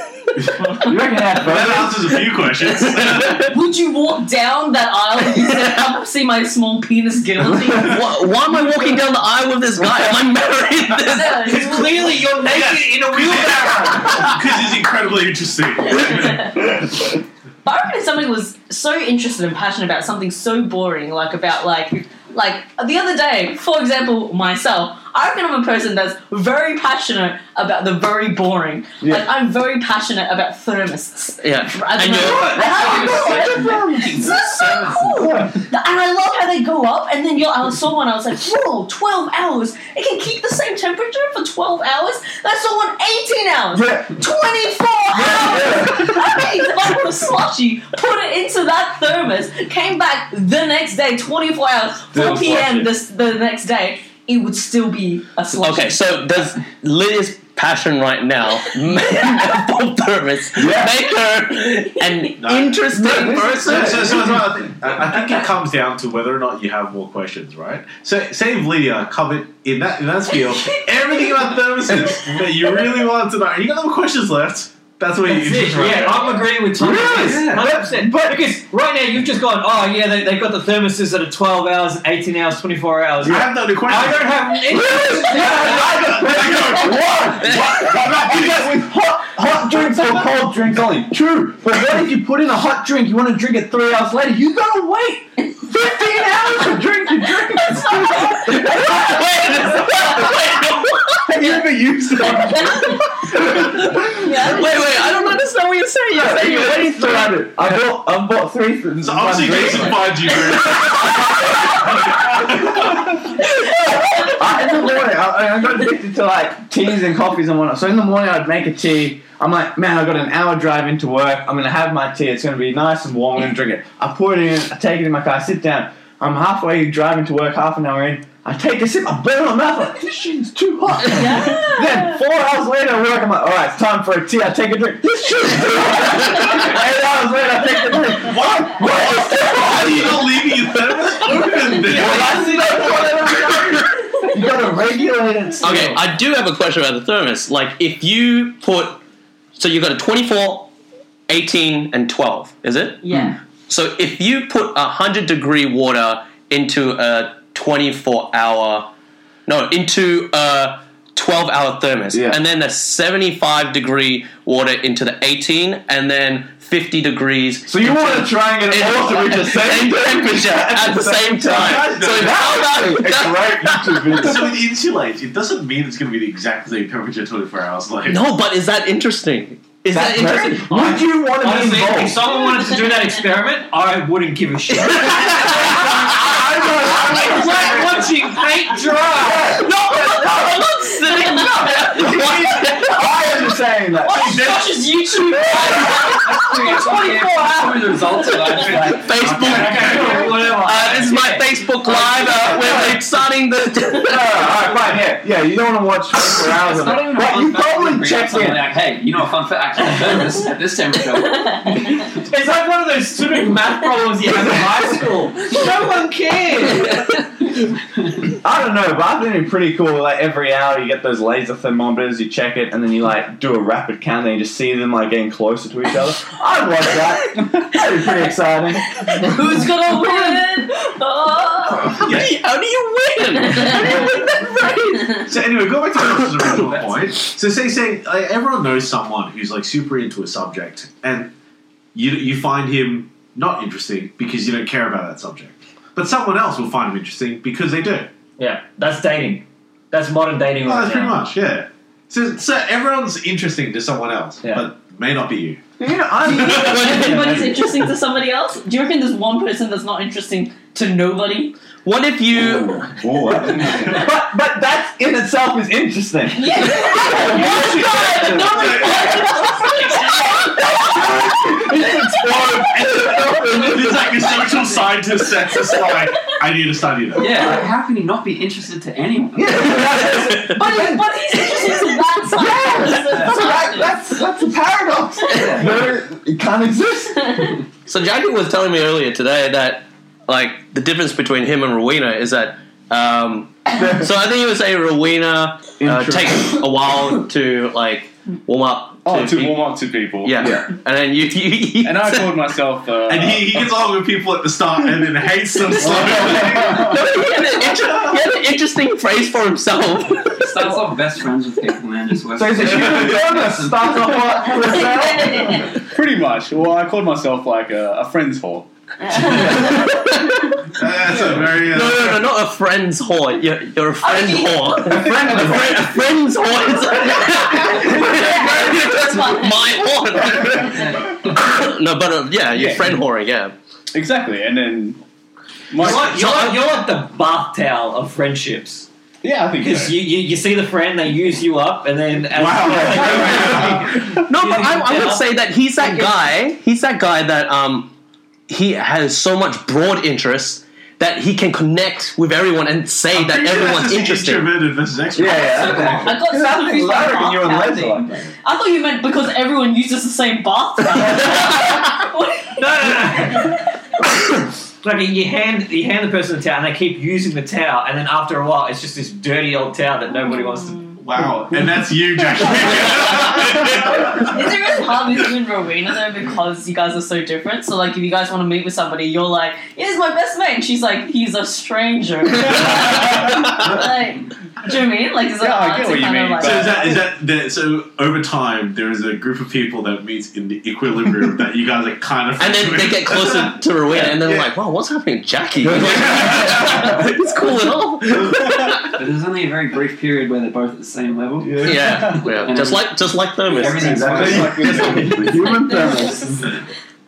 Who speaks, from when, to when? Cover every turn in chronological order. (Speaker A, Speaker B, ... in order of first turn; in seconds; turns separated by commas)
Speaker A: 0.8-2.1, Speaker B: 1.3-3.5, Speaker C: 2.6-3.5, Speaker D: 3.4-8.0, Speaker C: 5.3-5.9, Speaker C: 7.7-11.5, Speaker D: 11.1-11.9, Speaker E: 11.4-14.4, Speaker B: 12.4-16.6, Speaker D: 15.8-56.0, Speaker A: 29.0-29.2, Speaker C: 31.4-32.7, Speaker A: 32.1-34.3, Speaker F: 32.6-35.3, Speaker A: 35.2-35.5, Speaker A: 43.7-44.2, Speaker A: 45.1-46.3, Speaker A: 52.1-52.9, Speaker C: 55.6-64.3, Speaker D: 58.9-59.6, Speaker A: 60.5-61.0, Speaker D: 62.0-62.3, Speaker B: 62.4-76.5, Speaker A: 62.9-64.7, Speaker D: 70.4-72.4, Speaker E: 75.2-86.0, Speaker A: 76.8-78.6, Speaker B: 77.1-77.7, Speaker B: 83.2-84.4, Speaker A: 84.7-100.6, Speaker B: 85.5-87.3, Speaker C: 87.4-87.9, Speaker B: 87.9-88.7, Speaker D: 95.4-100.6, Speaker A: 101.3-102.8, Speaker G: 101.3-103.1, Speaker D: 102.2-105.3, Speaker C: 104.3-107.5, Speaker A: 106.1-110.3, Speaker B: 108.9-111.2, Speaker D: 111.1-112.0, Speaker A: 111.6-112.9, Speaker B: 112.0-112.5, Speaker D: 113.4-115.0, Speaker A: 114.3-140.3, Speaker D: 131.1-132.2, Speaker B: 138.1-143.5, Speaker A: 141.8-146.0, Speaker C: 145.6-149.0, Speaker E: 145.6-145.9, Speaker C: 149.6-150.7, Speaker C: 151.3-158.9, Speaker D: 153.0-153.3, Speaker A: 153.1-153.3, Speaker C: 159.4-174.3, Speaker A: 162.1-162.4, Speaker A: 167.7-174.6, Speaker B: 171.5-172.5, Speaker B: 174.1-178.2, Speaker C: 178.1-180.9, Speaker A: 179.9-182.2, Speaker E: 180.7-185.9, Speaker C: 184.7-185.8, Speaker A: 185.4-188.1, Speaker E: 187.1-189.7, Speaker A: 188.7-196.2, Speaker D: 189.6-192.2, Speaker C: 191.2-193.0, Speaker D: 194.0-198.8, Speaker F: 196.1-199.9, Speaker C: 198.8-204.6, Speaker E: 199.2-202.4, Speaker B: 199.5-200.2, Speaker A: 199.8-200.5, Speaker A: 202.3-203.1, Speaker A: 203.9-208.6, Speaker F: 206.3-212.1, Speaker D: 211.3-211.8, Speaker E: 212.1-217.1, Speaker A: 214.2-215.0, Speaker A: 215.5-215.9, Speaker A: 218.3-230.4, Speaker D: 229.1-232.0, Speaker B: 232.0-232.4, Speaker C: 232.0-235.2, Speaker D: 233.4-235.2, Speaker B: 235.2-241.3, Speaker C: 236.0-236.6, Speaker F: 236.6-237.1, Speaker B: 241.9-248.1, Speaker E: 248.4-251.2, Speaker B: 250.6-255.6, Speaker E: 254.4-254.7, Speaker A: 255.8-257.7, Speaker B: 256.3-256.8, Speaker D: 256.3-261.5, Speaker C: 256.4-257.5, Speaker C: 261.8-263.3, Speaker A: 262.3-269.7, Speaker B: 263.6-264.0, Speaker D: 266.3-272.6, Speaker B: 268.4-269.3, Speaker A: 270.4-274.3, Speaker B: 273.5-277.4, Speaker F: 277.1-279.7, Speaker A: 277.3-277.6, Speaker A: 279.3-281.0, Speaker C: 280.0-280.4, Speaker D: 280.4-284.1, Speaker A: 282.3-287.4, Speaker D: 285.3-285.7, Speaker F: 285.4-285.8, Speaker D: 287.3-287.6, Speaker C: 287.9-299.7, Speaker A: 293.8-294.1, Speaker A: 295.8-296.6, Speaker G: 299.1-300.5, Speaker C: 300.2-302.3, Speaker G: 301.8-303.7, Speaker B: 303.1-307.0, Speaker A: 305.8-307.0, Speaker C: 306.0-310.8, Speaker A: 307.6-308.2, Speaker F: 310.4-314.3, Speaker A: 312.3-315.7, Speaker D: 314.4-315.7, Speaker G: 315.8-319.5, Speaker D: 319.0-320.1, Speaker C: 319.6-320.2, Speaker B: 320.7-322.2, Speaker C: 321.6-333.5, Speaker D: 324.0-324.8, Speaker G: 324.9-325.8, Speaker A: 324.9-325.8, Speaker D: 327.7-329.8, Speaker G: 332.5-333.0, Speaker G: 333.9-335.0, Speaker G: 335.7-336.5, Speaker E: 335.8-338.9, Speaker C: 335.9-336.6, Speaker G: 339.2-340.0, Speaker E: 339.6-345.3, Speaker B: 342.3-343.9, Speaker A: 342.6-343.9, Speaker C: 344.2-347.9, Speaker E: 345.8-346.1, Speaker C: 348.5-354.5, Speaker B: 353.1-356.2, Speaker A: 355.1-358.3, Speaker D: 355.3-362.6, Speaker E: 362.6-363.6, Speaker E: 364.8-370.9, Speaker D: 370.7-371.0, Speaker B: 371.0-374.3, Speaker D: 373.6-386.7, Speaker C: 382.4-382.8, Speaker G: 385.4-387.0, Speaker B: 386.4-393.6, Speaker C: 392.4-398.9, Speaker A: 395.6-397.1, Speaker F: 399.0-405.4, Speaker A: 401.4-401.9, Speaker C: 401.6-404.5, Speaker A: 403.7-406.4, Speaker G: 403.8-405.3, Speaker D: 405.2-406.5